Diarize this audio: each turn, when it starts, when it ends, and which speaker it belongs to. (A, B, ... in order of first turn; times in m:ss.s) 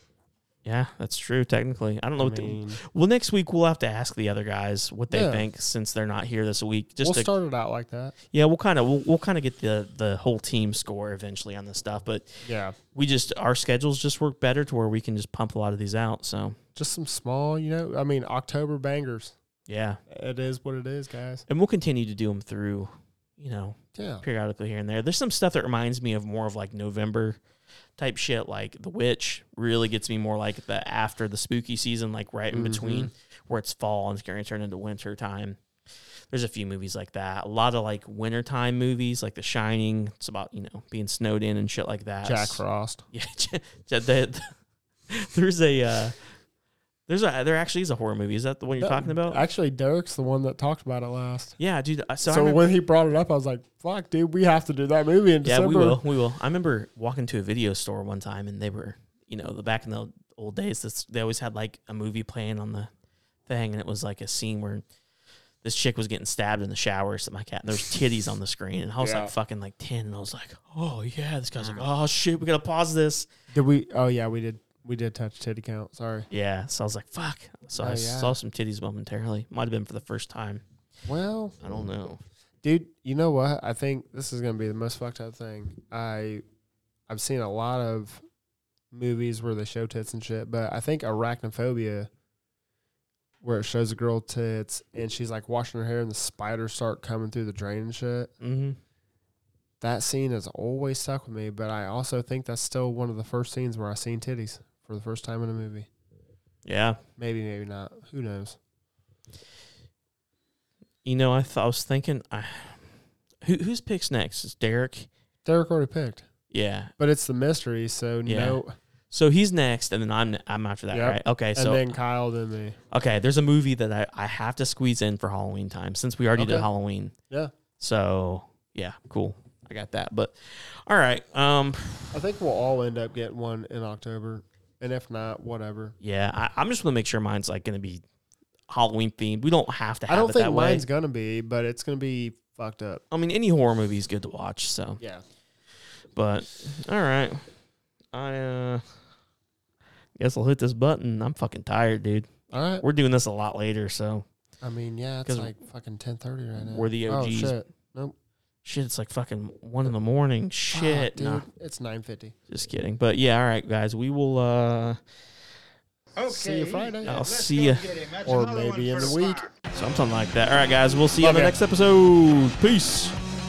0:00.6-0:07.3 A
0:02.2-0:02.8 B
0:05.1-0:05.4 B
0:07.0-0:08.1 B
0:08.3-0:16.6 A
0:12.4-0:12.8 B
0:16.8-0:19.4 B
0:19.7-0:20.0 A
0:20.1-0:21.4 B
0:21.5-0:27.4 A
0:24.0-0:24.2 B
0:28.0-0:35.6 A
0:32.5-0:33.1 B
0:36.3-0:44.6 A
0:42.2-0:43.0 B
0:45.1-0:46.2 A
0:47.1-0:49.4 A
0:48.8-0:51.6 B
0:51.6-0:52.7 A
0:52.2-0:56.0 B
0:55.4-1:02.9 A
1:03.5-1:04.8 A
1:05.6-1:13.3 A
1:09.0-1:09.3 B
1:13.5-1:16.3 B
1:16.3-1:20.6 A
1:17.7-1:18.4 B
1:21.0-1:21.6 B
1:21.6-1:22.2 A
1:22.6-1:26.4 B
1:27.1-1:28.2 B
1:28.9-1:32.1 B
1:33.4-1:38.3 B
1:38.4-1:38.8 A
1:39.8-1:45.9 B
1:46.6-1:47.0 A
1:47.2-1:48.6 B
1:51.0-1:52.9 A
1:53.4-1:55.1 A
1:55.4-1:56.3 B
1:56.5-1:56.9 A
1:57.0-1:58.7 B
1:58.3-2:02.0 A
2:00.9-2:02.8 B
2:02.9-2:07.1 A
2:06.4-2:06.7 B
2:07.8-2:12.2 A
2:12.1-2:16.0 B
2:16.0-2:18.0 A
2:18.7-2:20.8 A
2:20.1-2:23.0 B
2:23.1-2:25.0 A
2:26.1-2:27.5 A
2:28.1-2:28.8 A
2:30.2-2:34.3 A
2:32.5-2:32.8 B
2:34.6-2:38.1 B
2:35.3-2:35.5 A
2:36.6-2:37.6 A
2:38.6-2:41.4 A
2:40.7-2:42.4 B
2:42.5-2:45.0 A
2:46.2-2:49.5 C
2:46.3-2:47.3 B
2:47.0-2:47.9 A
2:48.2-2:49.4 B
2:49.7-2:53.2 A
2:51.2-2:51.6 B